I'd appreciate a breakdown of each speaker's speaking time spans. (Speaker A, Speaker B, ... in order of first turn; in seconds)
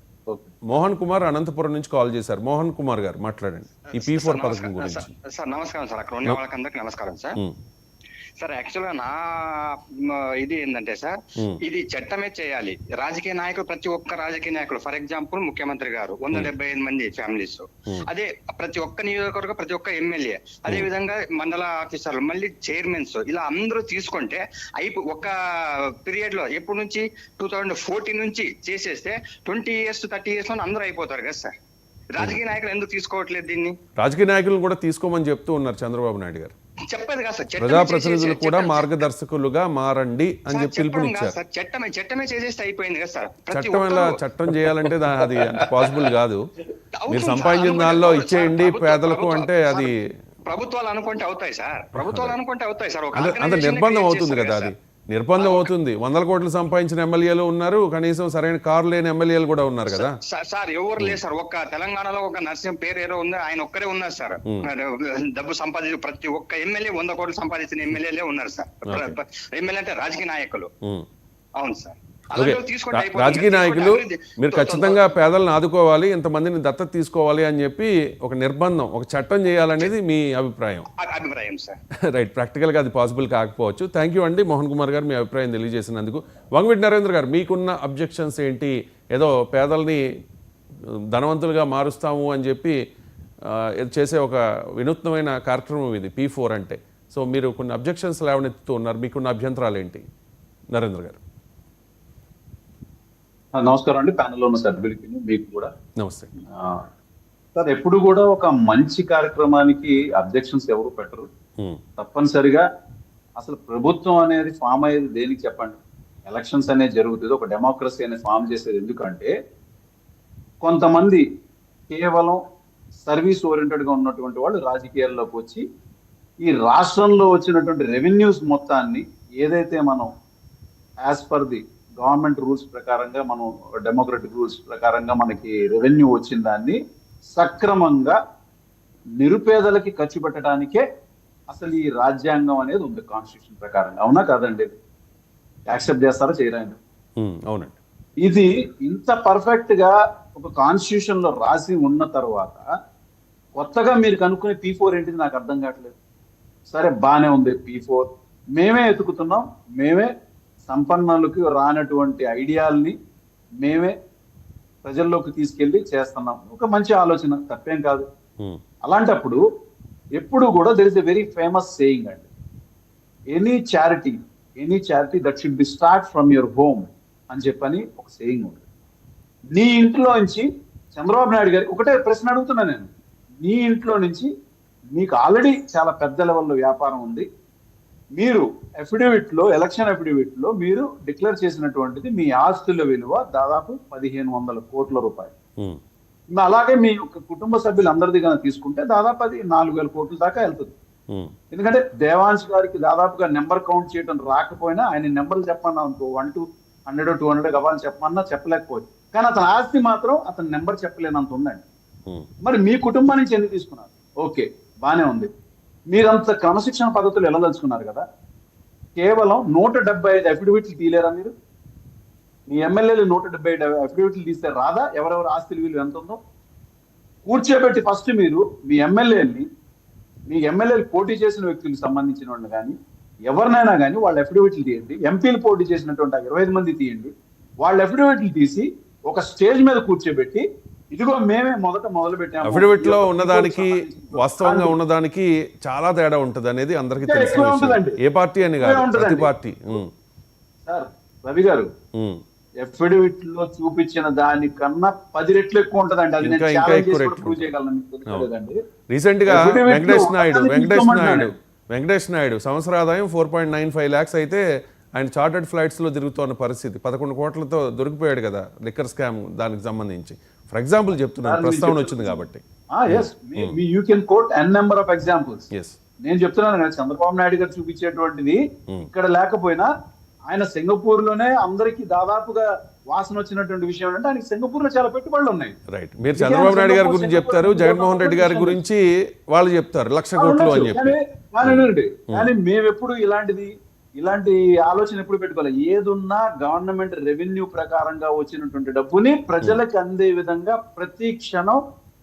Speaker A: 0.7-5.1, 34.0-36.5, 37.6-41.4, 43.5-46.4, 47.1-49.9, 51.9-52.4, 53.1-60.2, 68.9-69.2, 72.3-80.9, 82.1-90.0, 91.1-92.8, 93.5-100.0, 100.7-101.2, 106.0-106.3, 147.2-147.8, 242.4-249.9, 256.2-257.5, 258.9-264.4, 265.0-273.6, 275.5-275.8, 285.7-292.3
Speaker B: 3.9-7.4, 8.4-25.3, 26.1-31.5, 32.1-33.8, 36.9-39.1, 40.5-44.2, 47.0-49.9, 50.5-54.7, 55.4-55.7, 59.9-70.7, 71.6-75.2, 81.0-81.8
Speaker C: 103.6-105.7, 106.5-106.8, 107.6-111.3, 112.0-112.6, 113.4-119.3, 120.6-121.2, 121.9-122.4, 123.0-125.6, 126.5-130.1, 131.0-136.8, 137.4-138.2, 139.2-140.8, 141.5-144.7, 145.7-146.8, 148.2-152.7, 153.6-156.0, 156.7-158.1, 158.6-160.1, 160.7-162.9, 163.6-163.9, 164.8-168.0, 168.9-169.4, 170.2-172.3, 173.3-178.6, 179.6-182.9, 183.4-184.3, 184.9-187.2, 188.2-195.3, 196.4-200.7, 201.5-211.6, 212.4-215.3, 215.9-218.0, 219.0-221.3, 222.5-226.2, 227.3-229.4, 230.3-232.7, 233.3-237.1, 237.6-244.7, 247.0-248.0, 248.6-249.3, 250.7-251.7, 252.6-258.6, 259.3-261.3, 271.2-275.5, 276.1-279.7, 280.3-285.6, 286.2-288.6, 290.2-301.6